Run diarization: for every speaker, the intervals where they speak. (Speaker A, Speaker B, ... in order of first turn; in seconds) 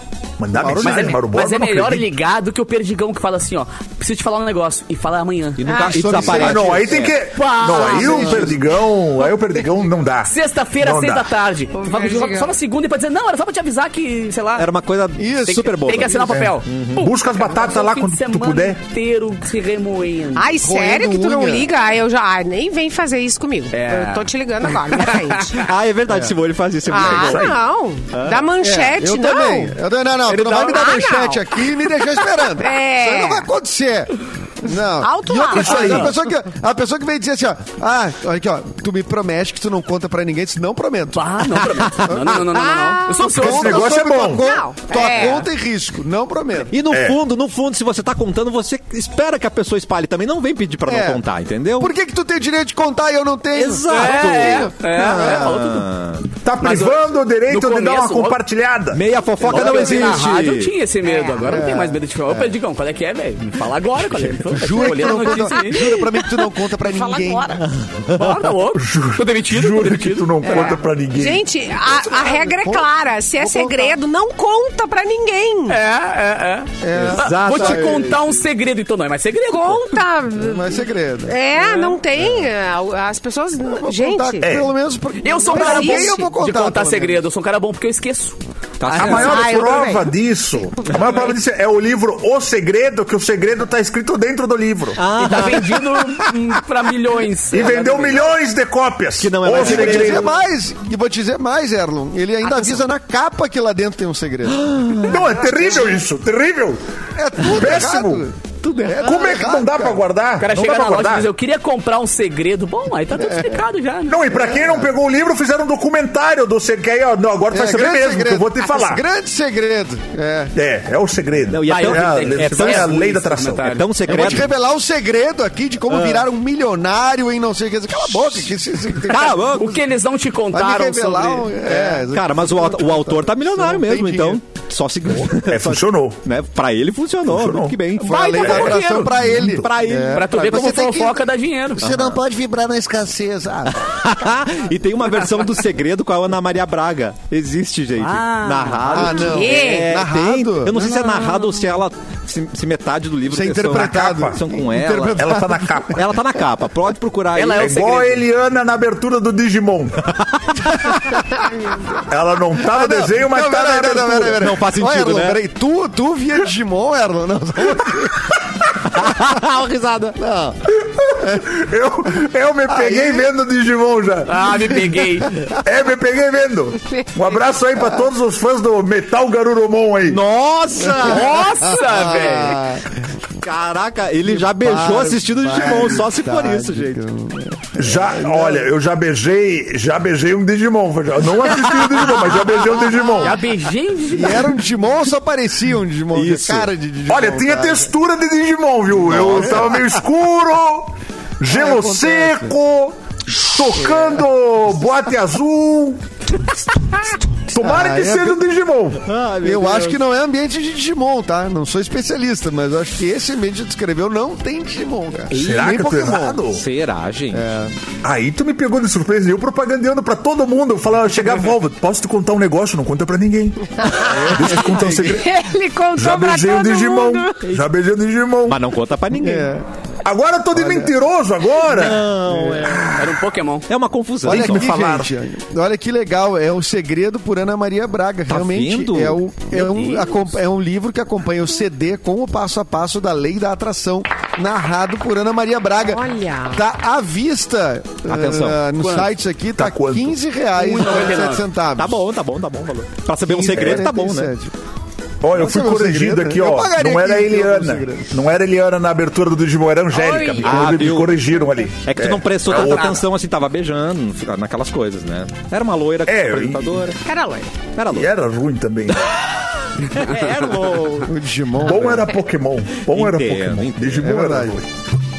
Speaker A: 0.4-2.1, 6.2-11.3, 16.3-18.8, 27.0-27.6, 35.5-36.1, 43.4-44.5, 46.9-47.2, 56.4-59.0, 68.8-71.5, 84.4-84.7, 88.9-95.0, 97.5-100.3, 105.0-106.8, 107.4-108.3, 109.0-111.3, 114.1-119.0, 120.5-123.7, 135.3-136.2, 137.3-137.8, 138.4-138.7, 153.7-154.4, 155.1-156.1, 157.6-160.1, 162.1-164.4, 170.8-174.5, 175.6-180.2, 187.8-193.4, 197.1-206.0, 207.5-209.0, 215.4-216.6, 218.0-225.3, 225.9-228.6, 230.0-232.1, 234.3-235.1, 249.6-250.2, 255.2-263.0, 266.1-266.9, 267.9-269.1, 271.6-274.7
Speaker B: 0.6-1.2, 5.9-7.1, 7.9-8.5, 15.2-15.7, 20.6-21.7, 26.1-26.4, 28.6-41.3, 42.1-42.4, 43.2-46.7, 50.9-51.2, 51.8-55.6, 59.5-60.0, 61.5-62.6, 64.5-67.6, 71.9-74.0, 76.8-78.1, 80.3-81.4, 83.7-87.2, 99.5-104.9, 107.2-110.0, 113.2-113.7, 114.3-114.9, 117.5-120.5, 124.1-129.4, 130.5-134.4, 138.0-141.2, 141.8-143.9, 148.9-151.1, 153.3-155.6, 162.6-168.4, 170.2-170.6, 171.2-171.5, 172.7-173.3, 180.8-182.9, 184.3-188.7, 194.1-197.9, 199.1-199.8, 201.5-202.6, 203.8-204.2, 207.6-208.4, 209.4-216.4, 217.3-217.7, 224.3-225.2, 229.2-229.7, 230.5-230.9, 232.3-232.8, 234.2-252.0, 253.2-254.5, 255.4-258.1, 271.0-272.1, 274.0-274.6
Speaker C: 0.8-5.9, 7.3-8.6, 10.3-14.7, 15.5-20.5, 23.7-24.3, 24.9-25.4, 30.3-30.9, 41.1-43.9, 53.9-55.9, 56.6-58.4, 59.5-66.0, 68.1-70.8, 75.7-80.0, 85.2-88.4, 88.9-89.4, 95.2-98.3, 110.4-114.2, 121.7-123.9, 129.2-131.7, 138.0-139.2, 140.1-141.8, 148.0-149.4, 157.3-158.3, 174.3-175.3, 181.0-182.6, 193.2-194.6, 232.9-233.7, 239.6-240.3, 250.6-251.4, 262.6-262.9
Speaker D: 5.6-7.2, 14.6-17.1, 25.6-27.6, 28.1-28.5, 46.7-51.9, 53.5-56.3, 58.9-60.7, 67.7-68.4, 76.9-78.2, 88.8-89.4, 95.0-96.0, 99.2-100.3, 104.6-105.2, 108.7-108.9, 121.5-122.9, 123.7-124.5, 125.9-126.3, 129.1-129.8, 131.7-140.5, 141.8-142.2, 143.8-155.2, 156.0-157.8, 160.2-160.9, 164.4-165.4, 168.9-170.2, 180.1-181.4, 183.4-187.0, 196.1-196.7, 199.1-199.6, 209.0-210.0, 215.3-215.8, 216.5-217.5, 228.5-229.6, 231.7-233.1, 233.7-234.7, 238.3-239.2, 248.1-248.6, 251.8-254.3, 260.4-261.2, 261.8-267.0, 267.8-268.1, 269.8-271.1, 272.9-274.2
Speaker E: 5.6-6.0, 11.7-12.6, 20.4-25.6, 26.9-29.7, 30.5-31.7, 32.5-33.5, 34.9-36.0, 42.4-43.3, 44.4-45.5, 61.0-61.7, 65.2-67.6, 70.4-75.8, 79.5-84.5, 85.4-86.2, 89.0-90.1, 102.5-102.8, 149.2-150.0, 223.8-224.4, 225.1-227.5, 245.8-246.6, 259.9-260.6, 267.0-267.6